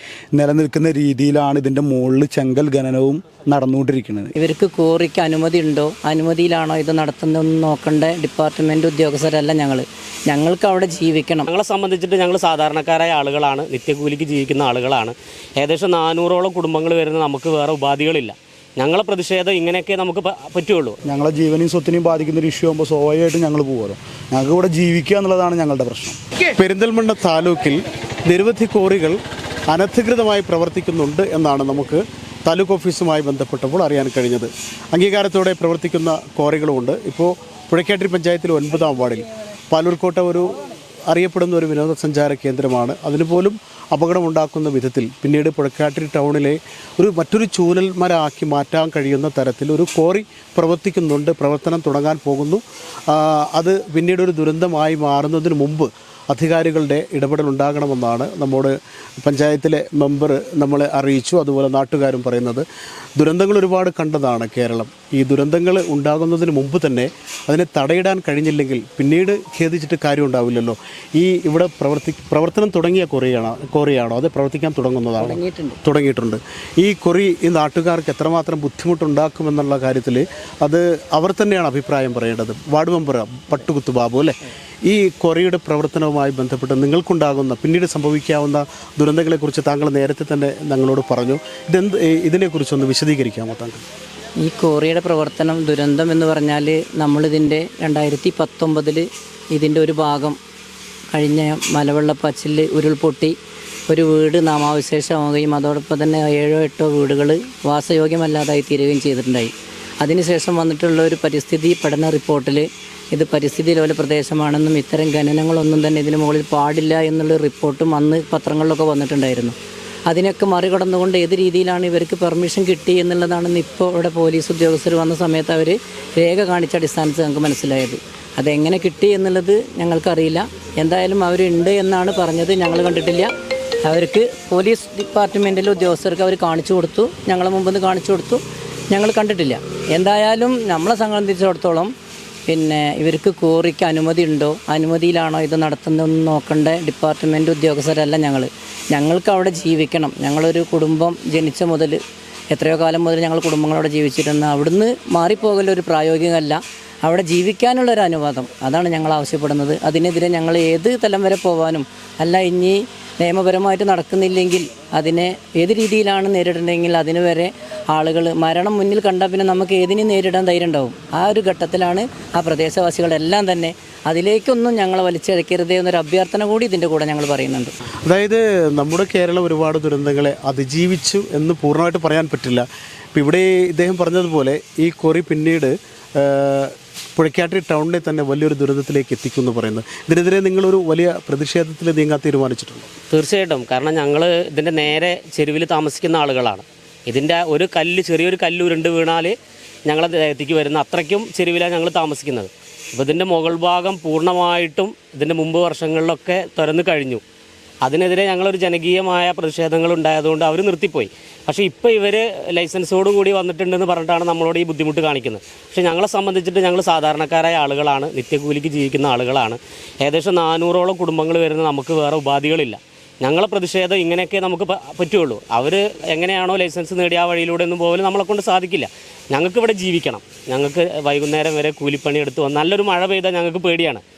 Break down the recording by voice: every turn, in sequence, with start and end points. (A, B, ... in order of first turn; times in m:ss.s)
0:00.4-0:04.3 A
0:04.4-0:11.5 B
0:11.5-0:21.0 C
0:21.0-0:26.2 A
0:26.5-1:02.6 D
1:03.2-1:24.3 D
1:15.2-1:15.8 B
1:24.8-1:33.8 D
1:34.4-1:40.4 B
1:41.1-1:43.3 B
1:43.9-1:59.5 B
2:00.1-2:13.3 B
2:13.8-2:21.9 B
2:22.5-2:32.0 B
2:32.5-2:57.7 B
2:58.0-3:12.9 D
3:13.1-3:19.3 C
3:19.9-3:27.2 C
3:27.8-3:54.0 C